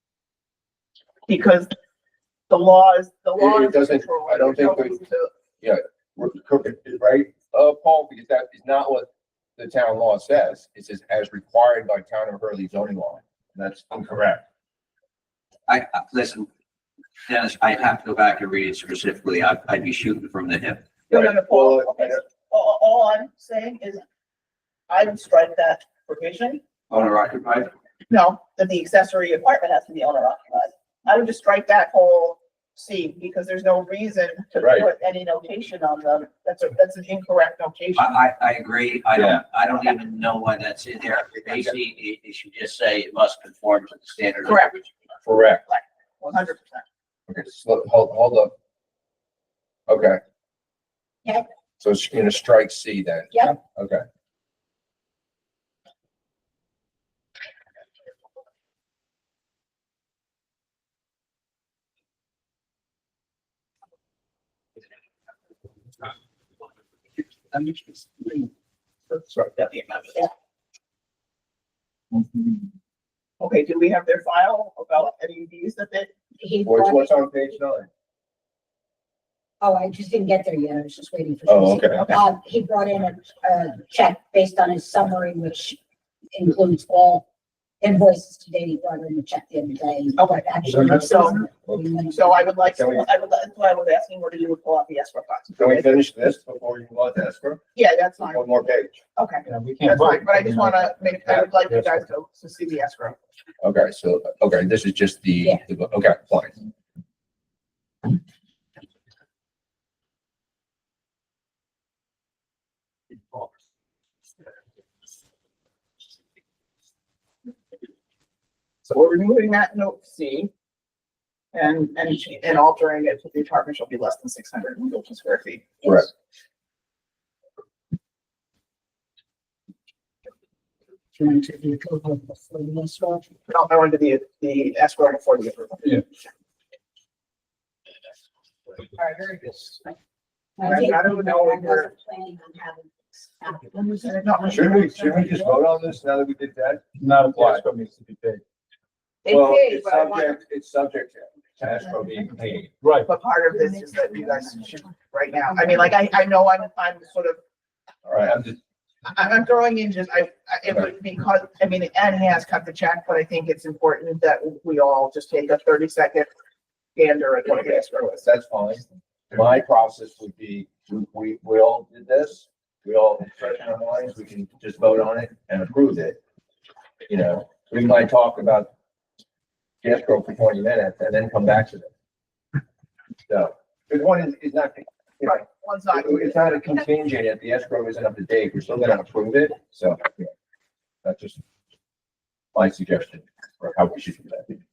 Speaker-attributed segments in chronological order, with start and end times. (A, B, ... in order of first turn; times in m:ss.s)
0:01.3-0:01.7 A
0:02.5-0:05.3 A
0:03.4-0:05.0 B
0:05.6-0:14.4 B
0:15.7-0:16.5 C
0:17.3-0:20.8 C
0:21.1-0:24.0 A
0:21.1-0:22.2 B
0:24.9-0:26.6 A
0:26.9-0:27.7 C
0:28.1-0:38.2 A
0:34.6-0:34.9 B
0:38.0-0:44.9 C
0:39.1-0:39.4 B
0:44.4-0:44.7 A
0:45.2-0:45.6 B
0:45.7-0:46.8 A
0:47.3-0:48.5 B
0:49.9-0:50.2 B
0:51.8-0:54.0 B
1:07.7-1:08.2 A
1:09.1-1:10.3 A
1:13.4-1:16.1 A
1:16.4-1:17.4 D
1:16.6-1:17.9 B
1:19.6-1:25.8 D
1:21.5-1:22.0 B
1:22.0-1:22.2 A
1:26.3-1:27.2 D
1:27.8-1:32.6 D
1:30.6-1:31.4 E
1:31.0-1:31.4 A
1:32.1-1:35.9 A
1:32.6-1:33.0 B
1:35.6-1:37.6 B
1:37.7-1:38.4 A
1:38.3-1:39.0 B
1:39.2-1:43.2 A
1:39.4-1:42.0 E
1:43.6-1:46.6 B
1:58.9-2:00.5 A
2:01.5-2:06.1 A
2:11.2-2:13.3 D
2:13.5-2:16.0 A
2:19.0-2:19.9 D
2:20.6-2:25.6 D
2:20.6-2:21.9 A
2:24.1-2:24.9 A
2:24.5-2:27.6 B
2:27.0-2:28.4 E
2:29.2-2:30.3 A
2:29.2-2:32.7 B
2:32.8-2:33.1 E
2:33.0-2:37.4 A
2:38.0-2:38.6 B
2:39.0-2:46.3 A
2:47.0-2:48.2 A
2:47.4-2:56.2 B
2:57.1-2:58.7 B
2:59.8-3:01.9 B
3:03.3-3:05.4 B
3:05.2-3:06.6 A
3:05.9-3:10.3 B
3:11.0-3:11.4 B
3:12.5-3:14.6 B